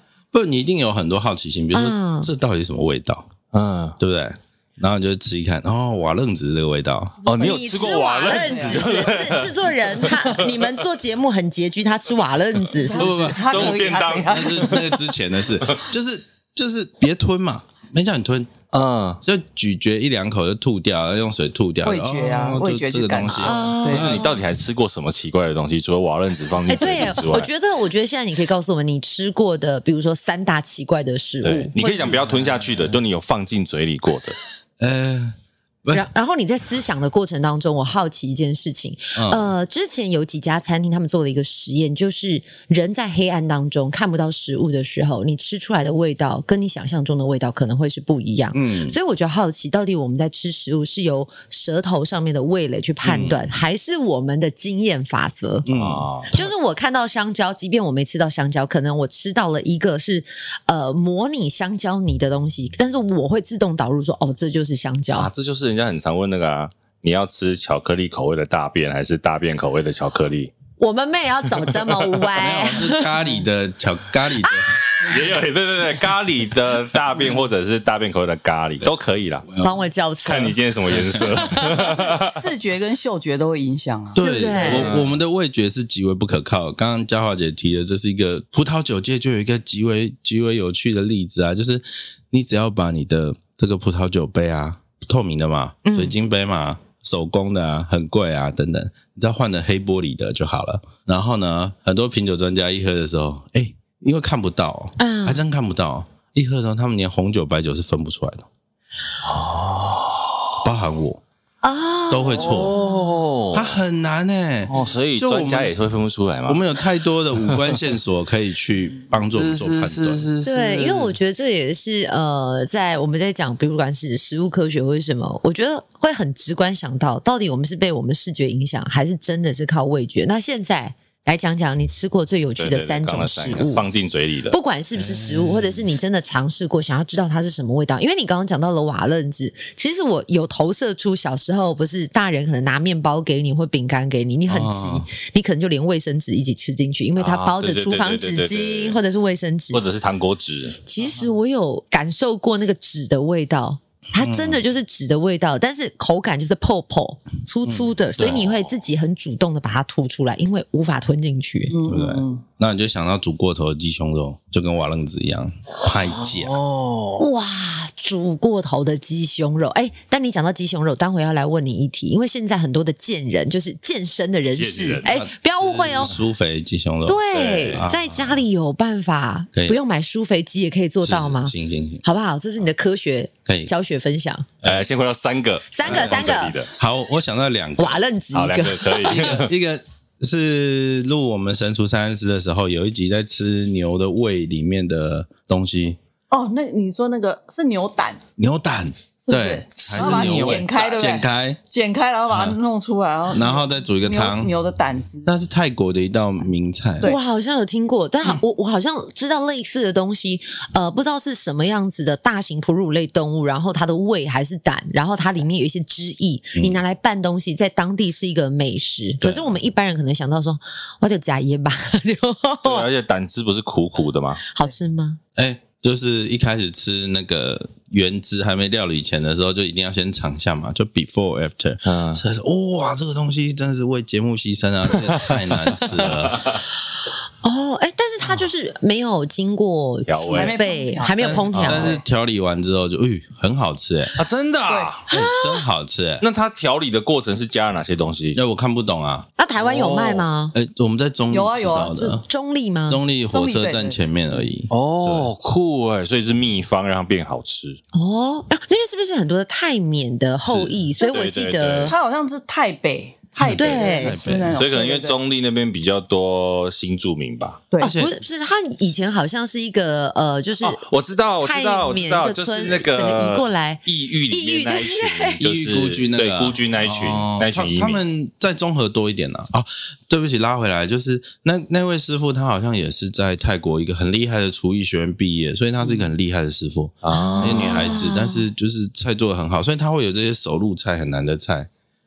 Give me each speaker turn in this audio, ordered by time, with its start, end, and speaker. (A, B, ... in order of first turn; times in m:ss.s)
0:00.3-0:03.3 A
0:01.7-0:02.3 B
0:03.5-0:04.0 C
0:04.0-0:07.2 A
0:07.2-0:10.6 C
0:07.4-0:13.4 B
0:07.4-0:09.2 D
0:12.8-0:14.9 D
0:12.9-0:18.5 A
0:13.3-0:14.9 C
0:18.7-0:19.2 C
0:19.2-0:24.2 A
0:21.8-0:24.1 D
0:23.3-0:24.4 B
0:23.8-0:27.5 C
0:26.7-0:32.2 B
0:31.4-0:34.4 C
0:32.3-0:32.9 A
0:34.8-0:36.0 A
0:35.9-0:55.7 B
0:39.2-0:39.5 A
0:48.5-0:49.0 A
0:53.0-0:53.4 A
0:55.6-0:56.1 A
0:55.7-0:56.3 C
0:56.3-1:05.3 B
1:05.1-1:10.5 C
1:10.8-1:13.3 B
1:12.3-1:14.7 A
1:14.4-1:15.1 B
1:15.0-1:19.5 C
1:19.5-1:19.8 A
1:19.6-1:20.6 B
1:20.2-1:22.4 C
1:21.2-1:21.8 B
1:21.8-1:24.6 D
1:24.1-1:48.4 A
1:24.2-1:24.9 B
1:24.6-1:25.1 C
1:35.8-1:36.1 B
1:45.0-1:45.4 B
1:49.2-1:50.6 C
1:50.6-1:51.2 A
1:51.6-1:53.2 B
1:52.1-1:52.8 A
1:52.4-1:53.8 C
1:53.5-1:55.7 A
1:54.7-1:56.6 C
1:56.5-2:00.3 A
1:57.4-1:57.8 C
1:59.1-2:01.1 C
2:00.4-2:13.8 B
2:12.6-2:14.6 C
2:14.5-2:29.8 B
2:15.0-2:15.8 A
2:24.5-2:25.1 A
2:27.2-2:29.0 C
2:29.7-2:30.8 C
2:30.8-2:41.7 B
2:34.1-2:34.6 A
2:37.6-2:37.9 A
2:38.2-2:38.7 C
2:41.7-2:42.4 D
2:41.9-2:46.6 A
2:46.1-2:47.2 C
2:47.2-2:56.1 B
2:54.5-2:55.1 C
2:55.0-2:58.1 A
2:57.0-3:04.5 B
2:57.3-2:57.9 C
3:01.0-3:02.0 A
3:03.4-3:03.7 A
3:04.6-3:06.7 C
3:05.7-3:06.6 B
3:05.8-3:08.0 A
3:07.8-3:09.4 B
3:08.3-3:09.5 C
3:09.0-3:16.0 A
3:16.3-3:18.2 D
3:18.4-3:21.6 A
3:19.3-3:25.3 D
3:19.8-3:21.0 C
3:23.3-3:24.5 A
3:25.2-3:27.1 A
3:27.0-3:42.9 B
3:36.6-3:36.8 A
3:39.2-3:39.5 C
3:42.6-3:44.4 C
3:44.5-3:45.2 B
3:45.4-3:56.5 A
3:51.8-3:52.2 C
3:56.0-3:56.6 C
3:57.4-4:02.0 B
4:00.0-4:00.6 C
4:00.2-4:01.9 D
4:01.2-4:04.2 A
4:01.5-4:01.9 C
4:04.2-4:05.1 C
4:04.7-4:04.9 D
4:05.1-4:05.6 B
4:05.1-4:06.2 A
4:06.2-4:08.4 C
4:08.3-4:09.3 A
4:09.4-4:10.5 B
4:09.6-4:10.2 C
4:10.5-4:12.2 A
4:11.3-4:12.2 D
4:12.2-4:13.0 B
4:12.9-4:15.3 A
4:13.3-4:14.0 D
4:14.7-4:17.8 C
4:17.9-4:21.9 B
4:20.5-4:21.9 C
4:21.8-4:25.2 D
4:23.4-4:24.6 A
4:23.5-4:24.2 B
4:24.5-4:27.6 C
4:27.8-4:28.2 A
4:27.8-4:30.8 B
4:30.6-4:38.0 C
4:31.4-4:35.4 B
4:35.4-4:51.7 A
4:47.0-4:48.0 C
4:47.1-4:48.4 B